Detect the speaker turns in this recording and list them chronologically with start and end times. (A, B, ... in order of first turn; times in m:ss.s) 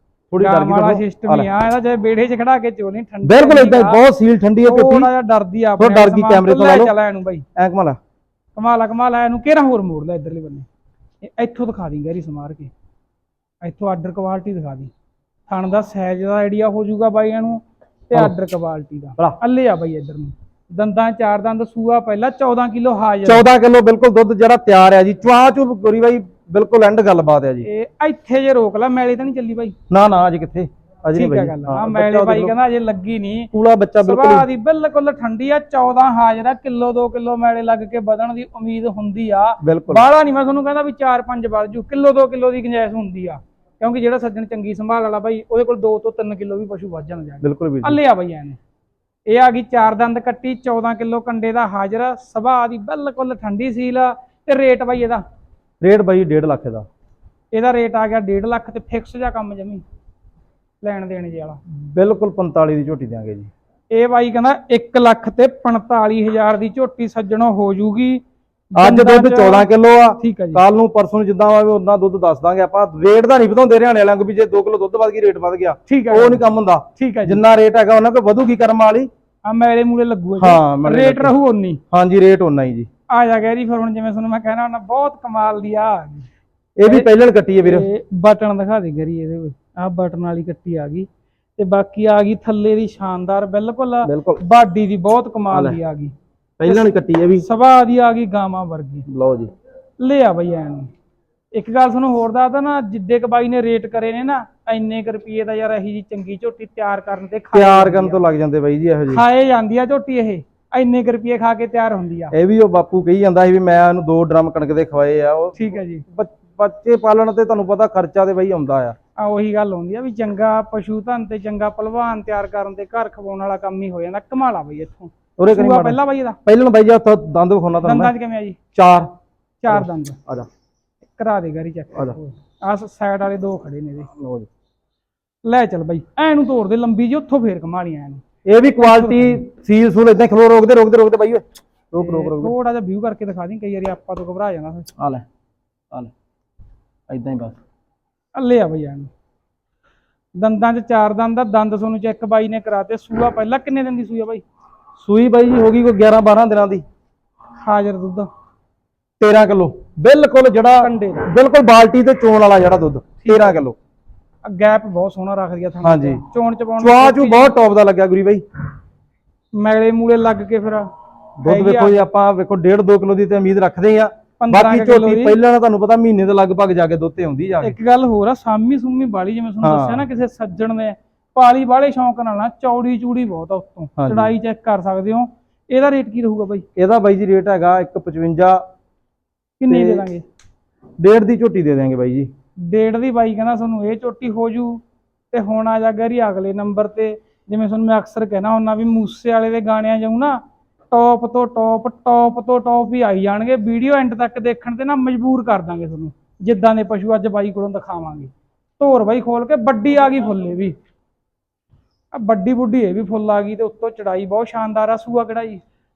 0:00.3-0:01.5 A
0:00.4-0:04.0 B
0:03.2-0:05.1 A
0:04.6-0:07.5 B
0:05.8-0:06.9 A
0:07.6-0:08.0 A
0:08.6-0:10.7 B
0:11.2-0:12.7 B
0:13.6-0:14.9 B
0:15.5-0:23.5 B
0:23.2-0:27.7 A
0:27.6-0:29.8 B
0:29.9-0:32.6 A
0:31.2-0:48.6 B
0:33.5-0:34.5 A
0:39.6-0:40.0 A
0:47.4-0:48.0 A
0:49.3-0:55.2 B
0:55.8-0:56.9 A
0:57.5-0:59.8 B
1:00.8-1:01.6 B
1:01.7-1:03.5 A
1:03.9-1:08.2 B
1:08.7-1:09.7 B
1:08.8-1:19.1 A
1:10.2-1:10.6 B
1:15.9-1:16.4 B
1:17.0-1:17.4 B
1:19.4-1:21.8 B
1:20.4-1:21.4 A
1:21.9-1:22.9 A
1:23.1-1:26.3 B
1:26.8-1:27.9 A
1:26.8-1:27.1 B
1:27.6-1:36.1 B
1:34.0-1:34.4 A
1:35.5-1:35.8 A
1:36.6-1:37.5 A
1:36.6-1:39.1 B
1:39.1-1:39.5 A
1:40.0-1:40.9 B
1:41.5-1:48.2 B
1:47.5-1:49.2 A
1:49.1-1:52.4 B
1:52.3-1:59.0 A
1:55.6-1:56.0 B
1:59.2-2:06.4 B
2:05.4-2:08.1 A
2:07.8-2:08.6 B
2:08.8-2:09.1 A
2:09.6-2:10.2 B
2:09.7-2:10.5 A
2:11.2-2:14.1 B
2:14.2-2:14.5 A
2:15.4-2:18.2 B
2:18.5-2:22.5 A
2:18.8-2:19.4 B
2:22.0-2:24.9 B
2:25.0-2:25.2 A
2:27.1-2:27.6 A
2:28.4-2:29.1 B
2:30.4-2:34.4 B
2:35.0-2:36.8 A
2:37.6-2:38.3 B
2:39.2-2:43.8 A
2:40.8-2:41.3 B
2:43.2-2:43.6 B
2:44.4-2:47.5 B
2:45.8-2:46.2 A
2:46.8-2:48.4 A
2:49.5-2:50.9 B
2:51.4-2:57.8 A
2:51.4-2:52.0 B
2:54.4-2:55.4 B
2:57.6-3:06.7 B
2:59.6-3:00.0 A
3:04.0-3:04.3 A
3:06.8-3:08.6 A
3:09.6-3:10.2 B
3:09.7-3:10.1 A
3:11.0-3:12.3 A
3:12.6-3:14.8 B
3:15.3-3:20.4 B
3:20.9-3:30.8 B
3:32.1-3:35.6 B